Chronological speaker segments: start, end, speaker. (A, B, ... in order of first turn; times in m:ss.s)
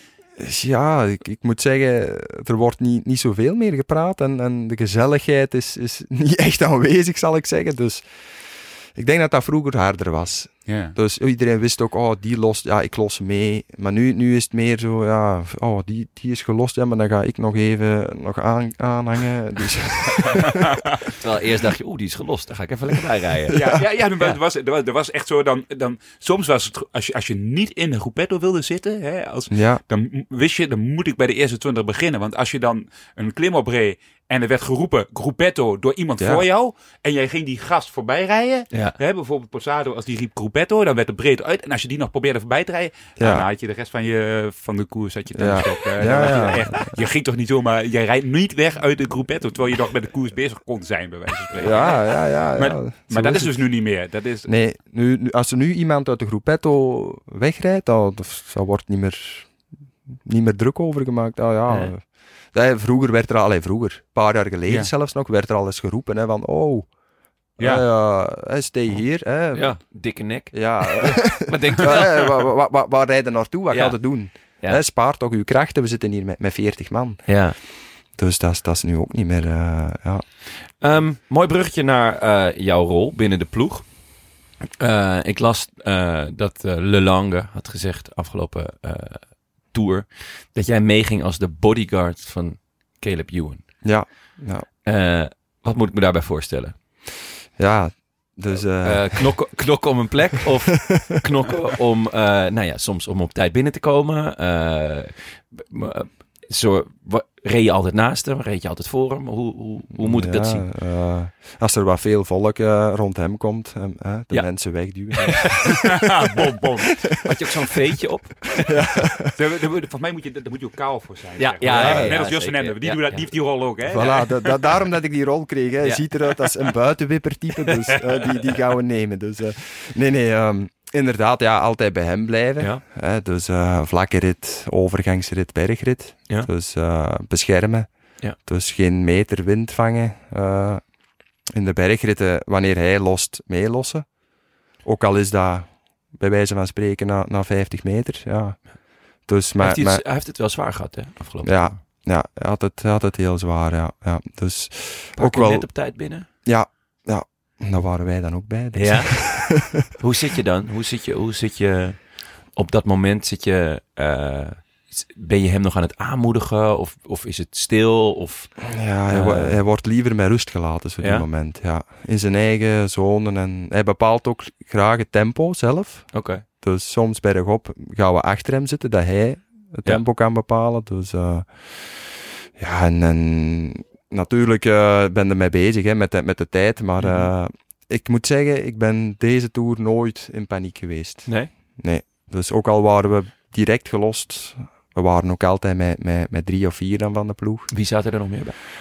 0:00.4-0:20.5 A
0:10.7-0:11.0 B
0:21.2-0:23.7 C
0:23.5-0:54.5 B
0:29.5-0:29.8 A
0:36.2-0:36.4 A
0:38.7-0:39.0 C
0:43.2-0:43.5 A
0:45.3-0:46.8 A
0:51.6-0:53.7 A
0:54.4-0:59.7 A
1:00.2-1:06.9 A
1:01.7-1:01.9 C
1:07.6-1:20.3 A
1:07.6-1:07.8 B
1:09.5-1:12.4 C
1:13.7-1:14.8 C
1:17.3-1:17.6 C
1:20.8-1:24.0 C
1:24.8-1:33.8 C
1:33.8-1:34.7 A
1:34.8-1:36.8 C
1:37.6-1:39.6 A
1:38.8-1:50.7 C
1:49.9-1:56.0 A
1:54.3-1:55.4 C
1:55.8-1:57.2 B
1:57.2-1:58.8 C
1:58.7-1:59.3 A
1:59.4-2:04.5 B
2:01.4-2:03.6 C
2:01.7-2:02.2 A
2:03.8-2:30.1 A
2:05.8-2:06.2 C
2:07.7-2:08.0 C
2:29.6-2:31.8 C
2:31.4-2:39.7 A
2:35.2-2:36.3 C
2:38.7-2:49.6 C
2:48.7-3:17.7 A
2:51.0-2:51.3 C
2:56.1-2:56.4 C
3:07.0-3:07.3 C
3:11.2-3:11.5 C
3:17.7-3:18.6 C